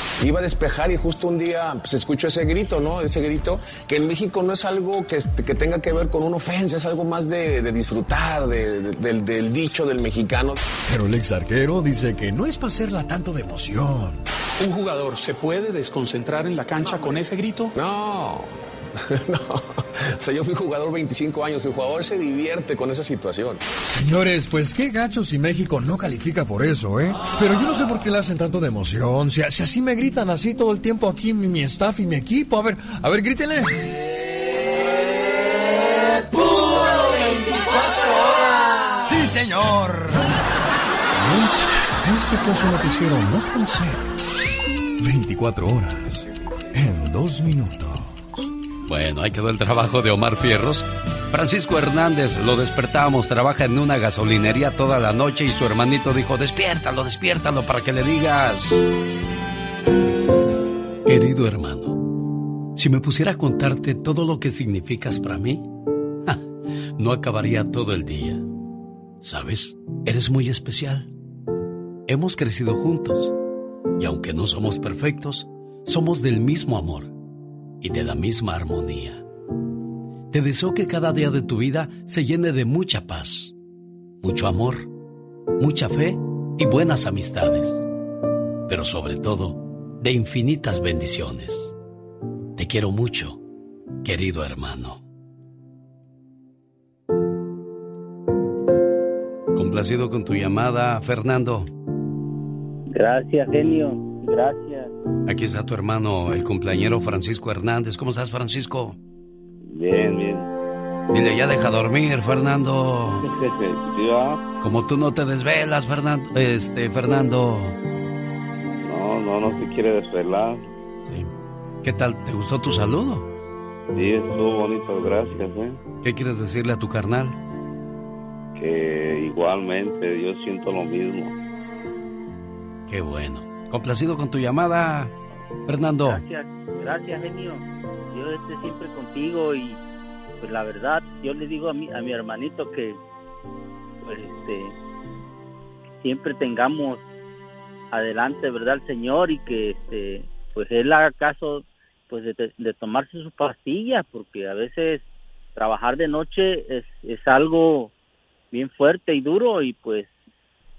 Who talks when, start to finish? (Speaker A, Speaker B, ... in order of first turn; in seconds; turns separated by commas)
Speaker A: 0.2-10.6, Speaker B: 10.9-14.2, Speaker C: 14.7-17.7, Speaker A: 17.8-18.5, Speaker A: 19.1-23.6, Speaker B: 23.9-34.0, Speaker B: 39.0-40.3, Speaker B: 41.1-44.1, Speaker B: 45.0-48.5, Speaker D: 48.9-58.8, Speaker D: 61.0-62.0, Speaker D: 62.8-65.7, Speaker D: 67.0-68.4, Speaker D: 69.2-71.1, Speaker D: 72.1-73.3, Speaker D: 74.0-77.1, Speaker D: 77.8-79.2, Speaker D: 80.3-83.5, Speaker D: 84.2-84.9, Speaker D: 85.6-87.8, Speaker D: 88.7-91.7, Speaker D: 92.6-93.4, Speaker D: 94.0-95.0, Speaker D: 99.5-101.7, Speaker E: 102.9-104.9, Speaker D: 105.3-109.0, Speaker F: 109.7-110.5, Speaker D: 111.1-113.3, Speaker F: 113.2-114.4, Speaker D: 114.6-117.8, Speaker F: 118.8-120.6, Speaker D: 121.0-121.3, Speaker D: 121.8-123.3, Speaker F: 123.9-125.8, Speaker D: 126.0-127.4, Speaker F: 128.6-131.3, Speaker D: 132.9-135.1, Speaker D: 135.7-136.2, Speaker E: 136.0-139.8, Speaker E: 140.4-143.0, Speaker E: 144.0-144.7, Speaker E: 146.0-147.0, Speaker E: 147.9-155.0, Speaker E: 155.6-157.9, Speaker E: 158.5-160.1